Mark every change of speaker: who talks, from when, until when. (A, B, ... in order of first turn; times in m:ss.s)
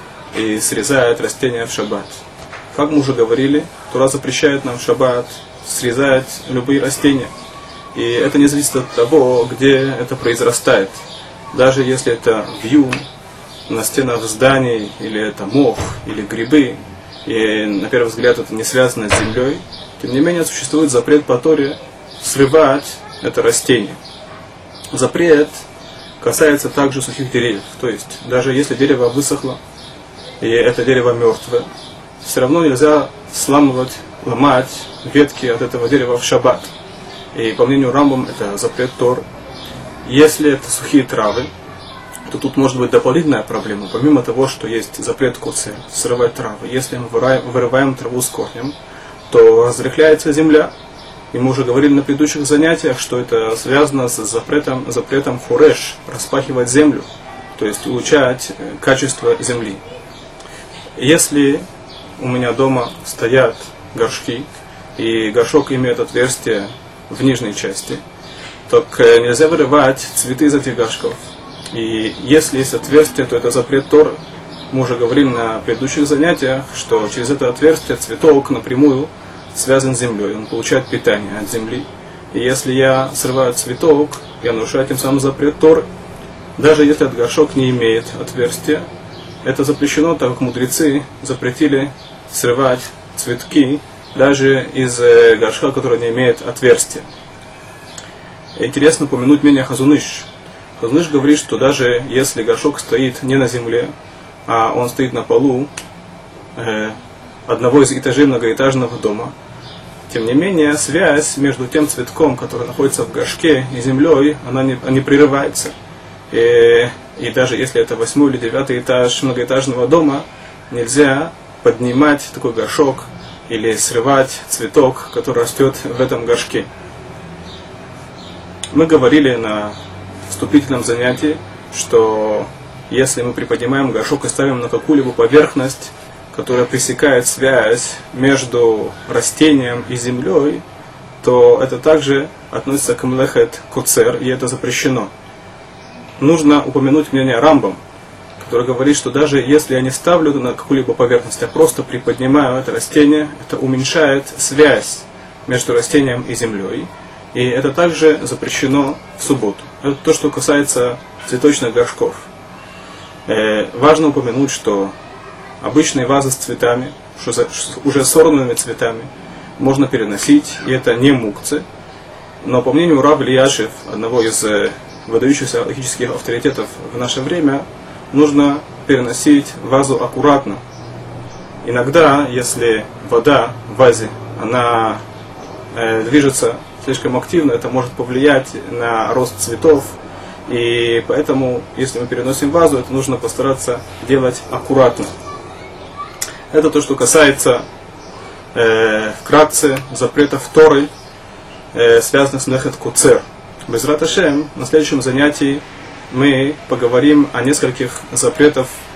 0:00.3-0:07.3 A
0:07.9-0:13.0 A
0:13.7-0:24.0 A
0:24.9-0:25.6 A
0:26.2-0:29.6 A
0:30.4-0:31.7 A
0:32.2-0:36.7 A
0:37.3-0:39.2 A
0:40.0-0:41.5 A
0:42.3-0:48.7 A
0:49.3-0:50.7 A
0:51.3-0:59.8 A
1:01.0-1:01.6 A
1:02.2-1:08.0 A
1:08.7-1:14.2 A
1:14.7-1:25.9 A
1:26.6-1:28.9 A
1:29.4-1:37.0 A
1:38.6-1:40.3 A
1:40.8-1:43.9 A
1:44.5-1:45.7 A
1:46.6-1:49.3 A
1:50.1-1:55.7 A
1:56.3-2:06.7 A
2:08.7-2:20.6 A
2:21.2-2:25.1 A
2:26.2-2:27.8 A
2:28.4-2:42.3 A
2:43.2-2:44.9 A
2:45.6-2:51.6 A
2:52.4-3:00.6 A
3:01.6-3:05.0 A
3:05.7-3:15.1 A
3:16.5-3:17.6 A
3:18.5-3:20.9 A
3:21.7-3:28.8 A